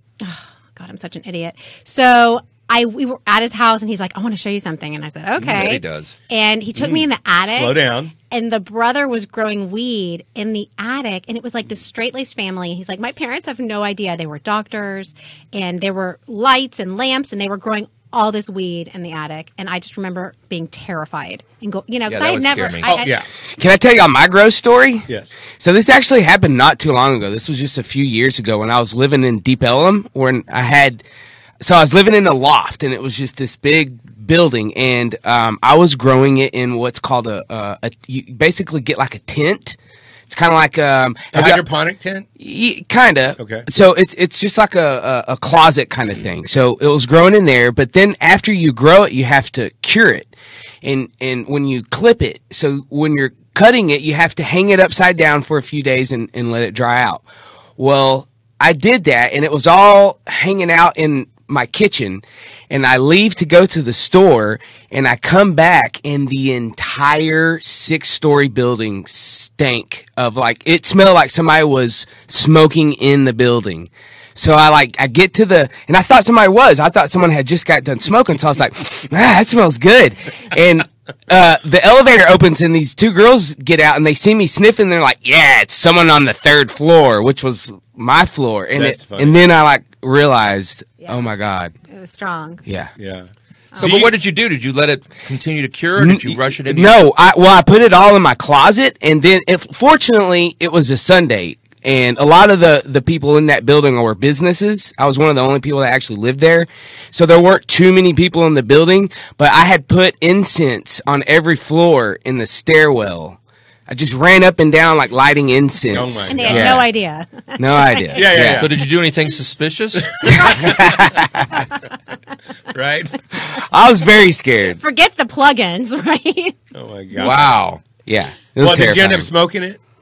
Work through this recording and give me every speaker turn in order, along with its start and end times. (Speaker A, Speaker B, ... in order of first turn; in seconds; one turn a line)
Speaker A: 0.2-7.8
Speaker B: 5.4-6.2
Speaker C: 6.7-8.1
Speaker A: 8.3-23.2
Speaker B: 22.1-22.9
Speaker C: 22.8-23.3
Speaker D: 23.6-31.0
Speaker C: 25.1-25.4
Speaker D: 31.6-39.8
Speaker D: 40.3-41.6
Speaker C: 41.3-42.3
Speaker D: 42.4-50.3
Speaker C: 43.4-43.6
Speaker D: 50.8-57.2
Speaker D: 57.8-91.7
Speaker C: 88.7-89.4
Speaker A: 91.0-91.2
Speaker A: 91.9-92.6
Speaker D: 92.6-92.9
Speaker C: 93.0-94.1
Speaker B: 93.8-97.0
Speaker D: 96.0-116.9
Speaker C: 115.9-116.8
Speaker A: 116.3-118.3
Speaker D: 117.6-118.7
Speaker C: 118.1-118.7
Speaker B: 118.5-120.2
Speaker C: 120.0-121.0
Speaker D: 120.3-121.6
Speaker C: 122.7-123.2
Speaker D: 123.4-124.8
Speaker A: 124.8-126.5
Speaker C: 126.7-127.5
Speaker B: 127.1-127.8
Speaker D: 128.1-129.3
Speaker C: 128.6-129.8